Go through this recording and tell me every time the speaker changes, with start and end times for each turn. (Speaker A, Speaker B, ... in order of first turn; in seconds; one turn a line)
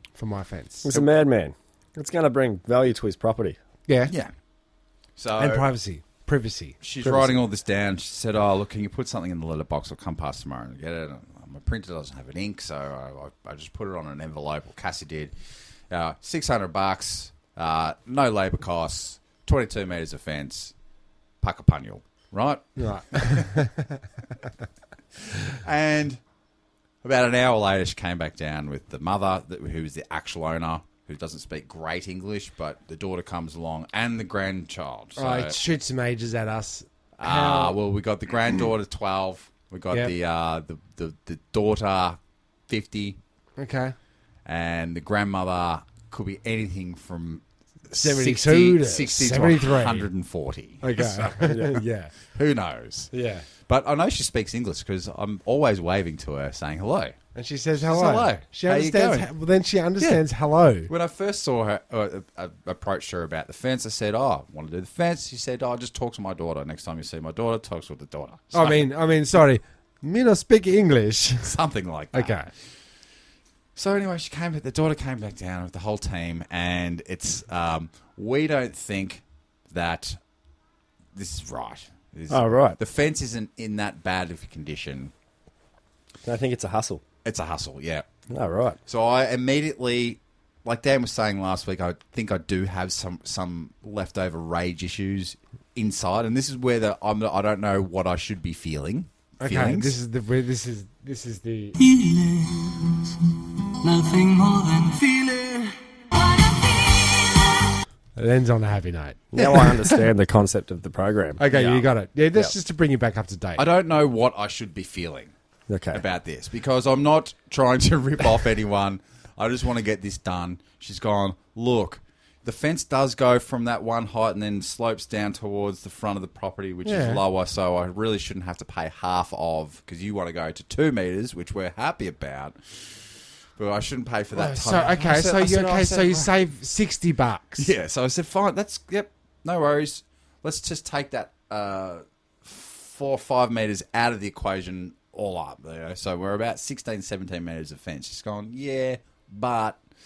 Speaker A: 0.2-0.9
Speaker B: 0.8-3.6
Speaker A: 3.9-4.1
Speaker C: 5.2-5.7
Speaker A: 5.4-6.8
Speaker C: 6.8-15.3
Speaker C: 15.9-20.7
Speaker C: 21.4-23.6
Speaker A: 22.8-24.0
Speaker C: 25.5-26.2
Speaker C: 27.0-35.6
Speaker A: 35.2-37.8
Speaker C: 37.2-42.2
Speaker C: 42.7-43.2
Speaker A: 43.6-44.0
Speaker C: 44.5-51.8
Speaker A: 48.0-50.1
Speaker A: 50.8-52.1
Speaker B: 51.5-51.8
Speaker C: 52.3-53.1
Speaker A: 53.1-53.5
Speaker C: 53.7-57.2
Speaker A: 57.4-60.9
Speaker C: 57.8-59.3
Speaker C: 60.9-68.9
Speaker A: 68.5-71.5
Speaker C: 71.4-72.4
Speaker A: 72.1-72.5
Speaker C: 73.8-80.2
Speaker C: 81.2-85.1
Speaker B: 82.3-82.8
Speaker B: 86.2-87.0
Speaker C: 87.2-88.1
Speaker B: 88.3-88.8
Speaker C: 88.9-100.0
Speaker A: 99.4-101.8
Speaker D: 101.8-103.1
Speaker D: 103.8-105.8
Speaker A: 108.2-110.1
Speaker B: 109.3-111.4
Speaker A: 111.4-113.6
Speaker C: 111.5-112.4
Speaker C: 113.6-115.3
Speaker B: 115.7-116.0
Speaker C: 115.9-136.3
Speaker A: 126.8-127.2
Speaker A: 134.3-137.7
Speaker C: 137.6-149.8